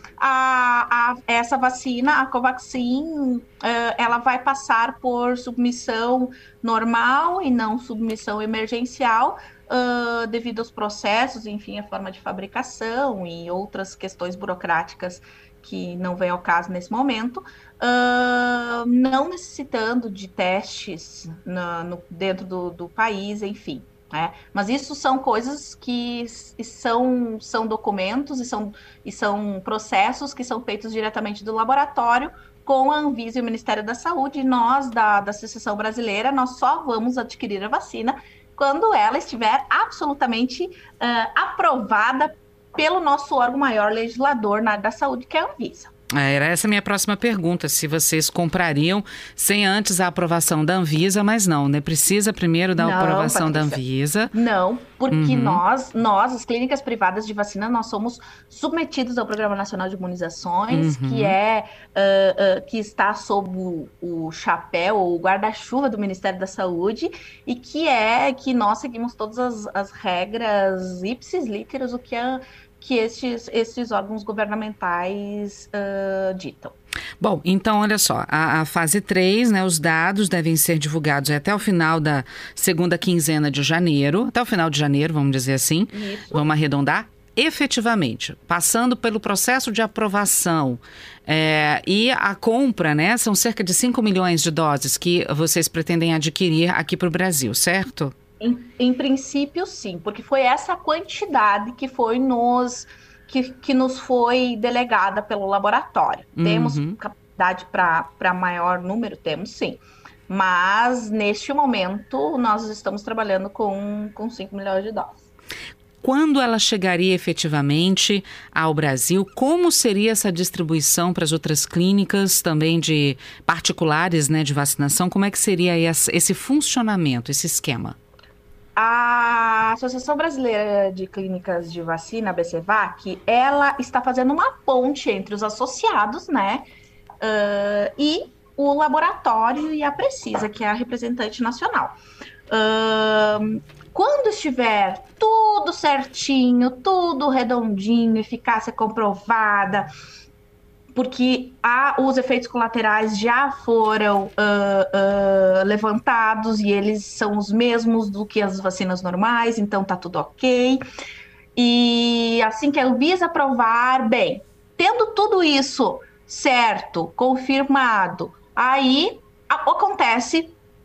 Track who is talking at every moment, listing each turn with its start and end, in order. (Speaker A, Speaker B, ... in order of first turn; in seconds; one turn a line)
Speaker A: 0.2-45.9
Speaker B: 46.2-54.3
Speaker A: 52.8-53.8
Speaker A: 54.3-76.8
Speaker B: 55.1-55.6
Speaker B: 60.7-61.4
Speaker B: 77.2-98.1
Speaker A: 85.9-86.5
Speaker A: 98.4-115.2
Speaker B: 106.4-107.0
Speaker B: 116.0-128.0
Speaker A: 128.8-136.6
Speaker A: 137.2-141.9
Speaker A: 142.5-149.9
Speaker A: 150.9-160.8
Speaker A: 161.6-170.6